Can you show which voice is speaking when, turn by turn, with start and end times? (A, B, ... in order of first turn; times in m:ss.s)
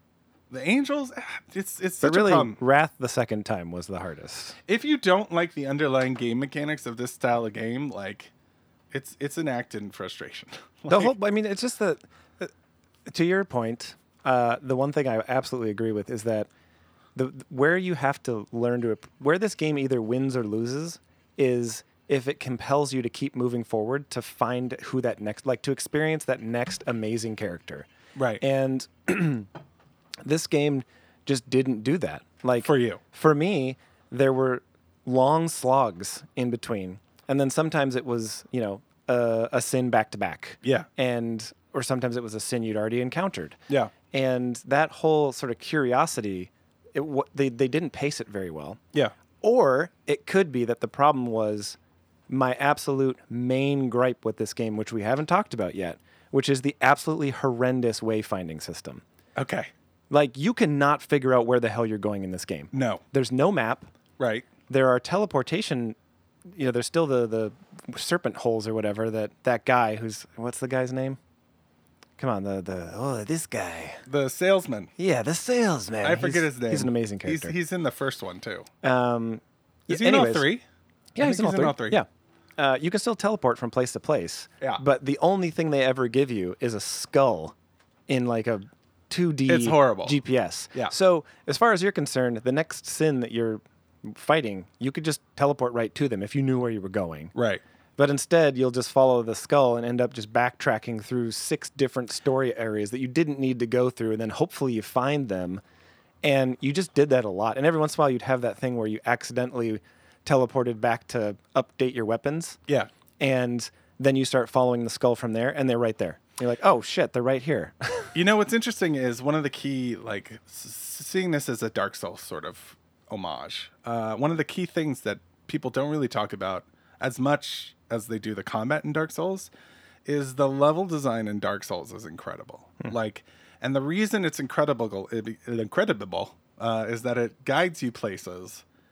0:00.5-0:02.6 A
0:02.0-0:04.6 B
0:04.7-0:08.3 A
0:08.9-0:11.1 A
0:10.9-0:12.5 B
0:13.1-0:16.5 B
0:17.1-0:27.9 B
0:28.2-0:28.4 A
0:28.4-0:29.5 B
0:30.2-0:43.6 B
0:32.6-0:33.0 A
0:40.6-0:40.9 A
0:44.1-0:48.8 B
0:49.4-0:51.8 B
0:52.3-0:59.0 B
0:59.4-0:59.7 A
1:00.1-1:03.9 B
1:02.7-1:03.0 A
1:04.2-1:04.5 A
1:04.7-1:11.2 B
1:12.2-1:14.0 B
1:14.0-1:14.9 A
1:15.0-1:17.5 B
1:16.0-1:18.7 A
1:18.8-1:20.5 B
1:19.9-1:20.6 A
1:21.2-1:27.5 B
1:21.2-1:22.0 A
1:28.1-1:37.3 B
1:29.5-1:30.2 A
1:37.3-1:37.6 A
1:38.0-1:45.6 B
1:46.2-1:52.6 B
1:53.2-1:58.1 B
1:58.1-2:09.5 A
2:10.0-2:18.6 A